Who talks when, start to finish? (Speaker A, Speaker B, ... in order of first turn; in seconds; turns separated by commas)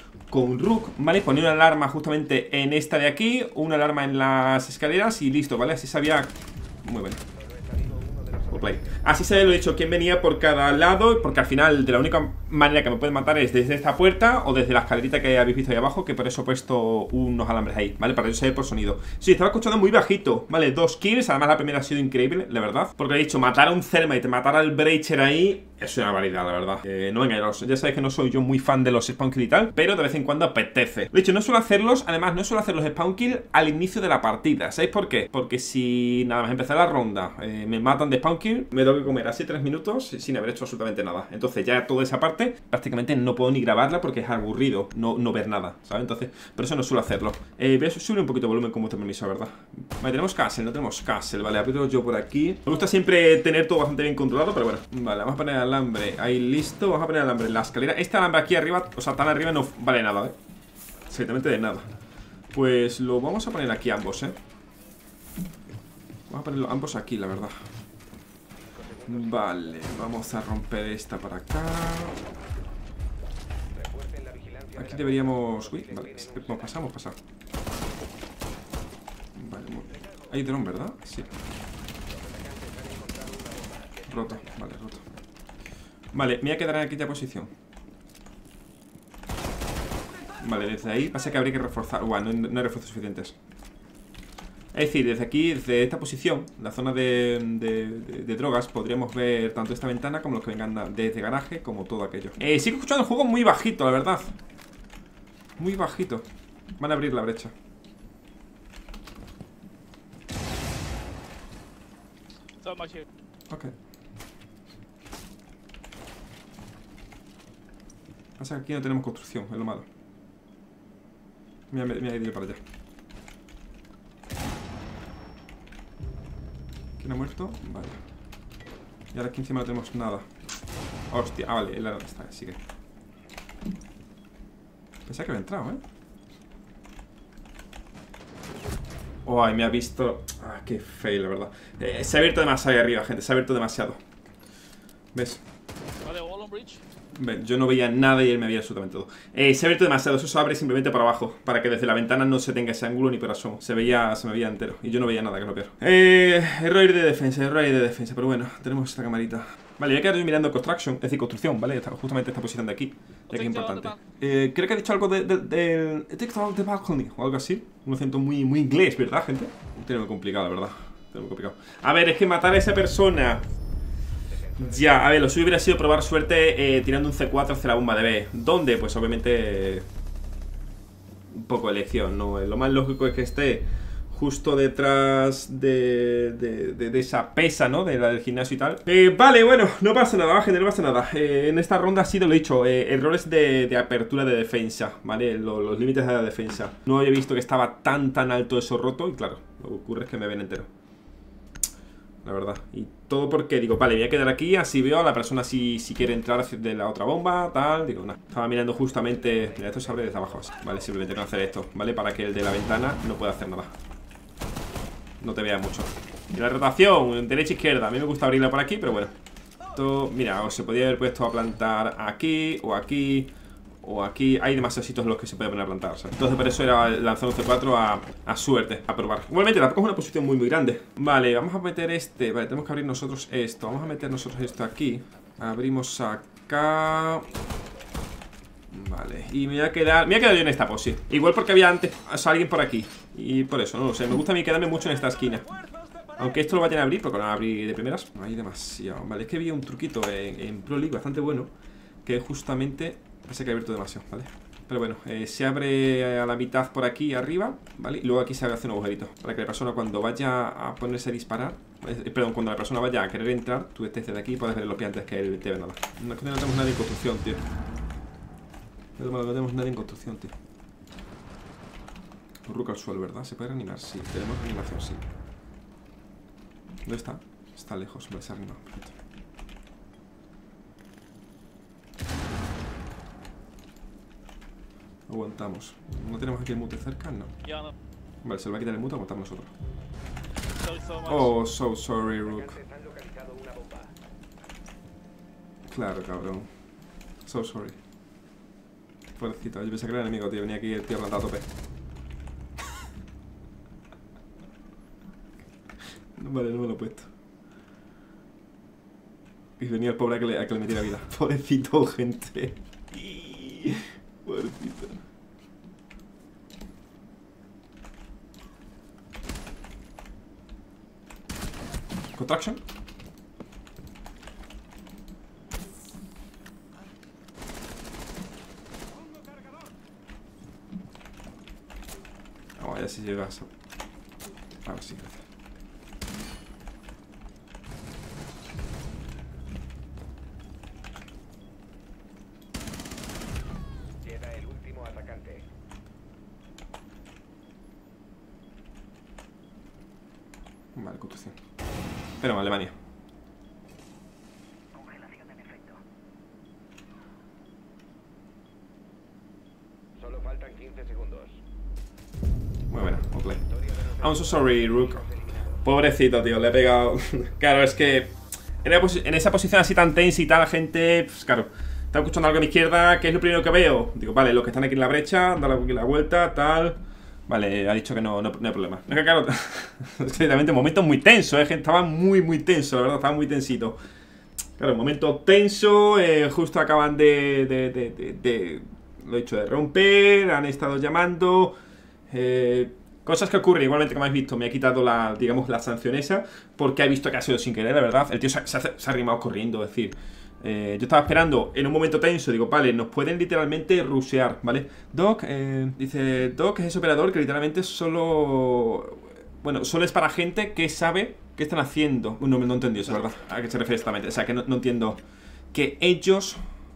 Speaker A: 0.3-7.2, Speaker B: 7.4-9.0, Speaker A: 8.5-60.3, Speaker A: 61.0-61.9, Speaker A: 62.5-64.4, Speaker A: 66.3-67.5, Speaker A: 69.0-72.2, Speaker B: 73.8-76.4, Speaker A: 74.7-77.2, Speaker A: 79.3-81.3, Speaker B: 82.1-84.0, Speaker A: 84.1-85.0, Speaker A: 86.1-87.5, Speaker A: 90.4-93.3, Speaker A: 94.7-104.3, Speaker A: 105.6-106.2, Speaker A: 106.8-107.5, Speaker C: 112.6-113.1, Speaker A: 113.5-113.7, Speaker A: 118.4-119.8, Speaker A: 121.7-122.6, Speaker A: 127.0-128.0, Speaker A: 129.1-130.2, Speaker A: 131.1-132.6, Speaker A: 135.1-135.8, Speaker A: 139.2-144.0, Speaker A: 145.1-145.4, Speaker C: 146.0-146.8, Speaker A: 147.1-173.4, Speaker C: 163.3-164.0, Speaker A: 174.6-179.8, Speaker A: 181.3-200.7, Speaker A: 202.2-213.7, Speaker A: 215.2-219.1, Speaker A: 219.7-223.3, Speaker A: 223.8-237.3, Speaker A: 238.7-245.5, Speaker A: 246.2-251.5, Speaker A: 252.0-267.4, Speaker A: 269.0-270.3, Speaker A: 272.4-275.0, Speaker A: 276.8-278.9, Speaker A: 285.1-287.3, Speaker C: 287.4-287.7, Speaker A: 288.2-289.5, Speaker C: 290.6-291.3, Speaker A: 291.1-292.6, Speaker B: 292.5-293.9, Speaker A: 295.6-296.5, Speaker A: 297.2-297.8, Speaker A: 299.1-301.4, Speaker A: 306.1-307.1, Speaker A: 309.6-315.0, Speaker A: 322.1-322.6, Speaker A: 332.6-333.5, Speaker A: 334.6-335.2, Speaker B: 344.1-345.4, Speaker A: 350.7-351.4, Speaker A: 352.2-352.7, Speaker B: 355.2-355.6, Speaker B: 360.0-361.3, Speaker A: 362.7-365.0, Speaker A: 365.6-383.8, Speaker A: 384.6-391.6, Speaker A: 392.1-415.0, Speaker A: 415.5-416.4